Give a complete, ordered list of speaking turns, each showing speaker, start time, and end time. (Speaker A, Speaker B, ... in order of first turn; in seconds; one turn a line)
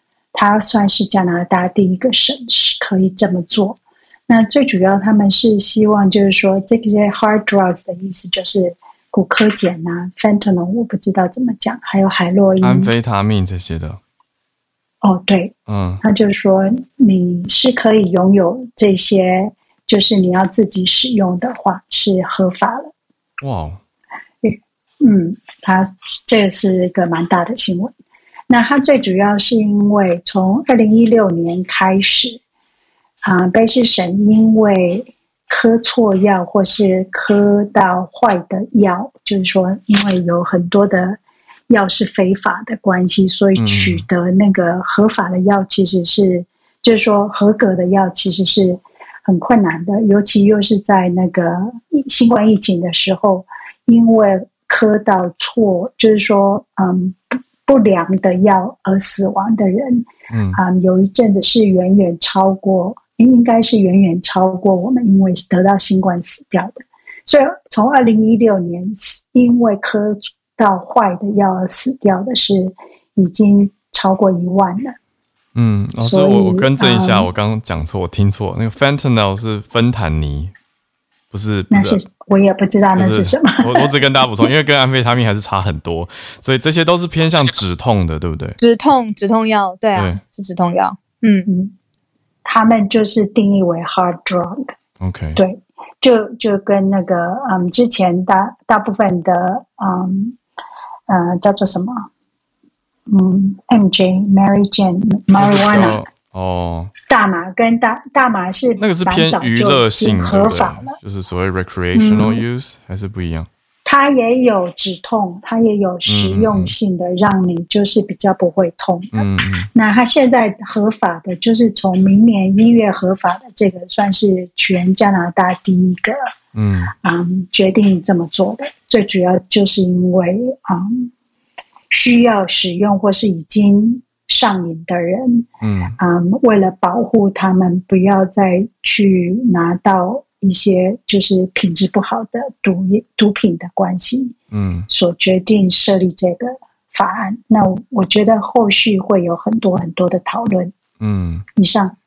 Speaker A: 0.3-12.9
Speaker B: 12.6-14.0
Speaker A: 15.0-22.9
Speaker B: 15.7-16.0
Speaker B: 23.4-23.8
Speaker A: 24.4-27.9
Speaker A: 28.5-32.4
Speaker A: 33.2-74.9
Speaker B: 43.6-44.0
Speaker B: 60.3-60.6
Speaker B: 75.5-80.5
Speaker A: 76.0-77.3
Speaker B: 81.3-82.0
Speaker A: 81.7-83.9
Speaker B: 82.9-88.6
Speaker C: 88.6-91.5
Speaker B: 89.9-90.2
Speaker A: 91.5-91.7
Speaker A: 92.4-94.7
Speaker B: 95.0-95.4
Speaker A: 95.3-100.4
Speaker A: 101.1-102.1
Speaker A: 103.1-106.0
Speaker B: 105.3-106.9
Speaker A: 107.1-111.0
Speaker B: 108.8-113.5
Speaker A: 111.9-112.4
Speaker A: 113.8-126.2
Speaker B: 116.0-116.7
Speaker B: 119.1-119.7
Speaker B: 126.5-126.9
Speaker A: 127.0-131.1
Speaker A: 131.9-135.5
Speaker B: 135.6-136.0
Speaker A: 136.0-144.3
Speaker B: 144.5-144.9
Speaker A: 144.9-150.7
Speaker B: 151.0-151.4
Speaker A: 151.6-151.9